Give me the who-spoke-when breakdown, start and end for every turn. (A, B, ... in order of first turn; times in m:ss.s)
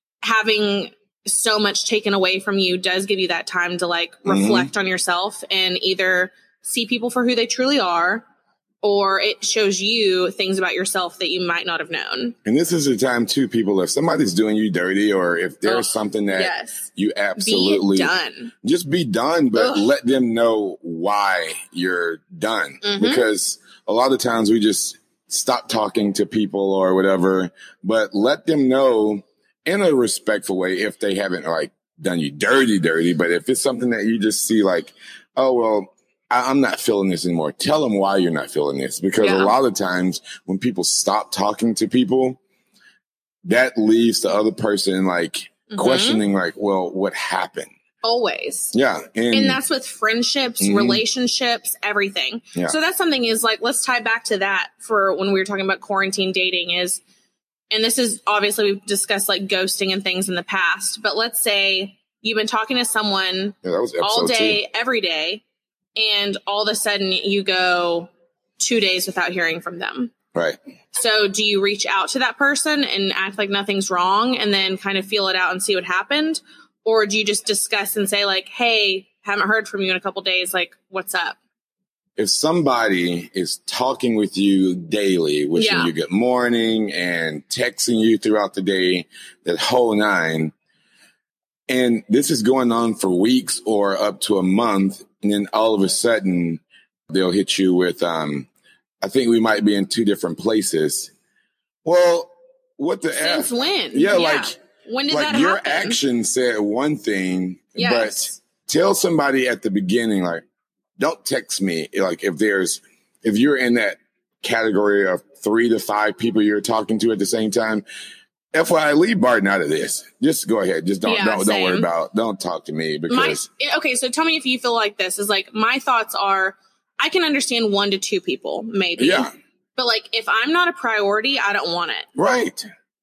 0:00.2-0:08.2 A
0:04.3-0:04.7 B
0:08.8-0:12.4 A
0:12.4-0:42.4 B
0:15.6-0:18.5 A
0:19.6-0:19.9 A
0:22.8-0:23.3 A
0:39.2-0:39.6 A
0:43.4-0:47.7 B
0:45.7-0:46.2 A
0:48.0-0:48.7 A
0:48.7-0:49.6 B
0:49.3-0:57.0 A
0:50.6-0:51.0 B
0:57.7-1:05.4 A
1:03.6-1:04.6 B
1:06.0-1:10.1 A
1:10.9-1:21.4 A
1:22.2-1:30.5 B
1:25.6-1:25.9 A
1:31.7-1:38.5 B
1:39.0-1:41.1 B
1:41.8-1:44.6 B
1:43.1-1:46.0 A
1:45.1-1:50.4 B
1:47.8-1:48.4 A
1:51.0-1:57.8 B
1:58.5-2:03.4 B
2:01.0-2:01.9 A
2:03.1-2:12.1 A
2:09.0-2:09.3 B
2:12.2-2:12.7 B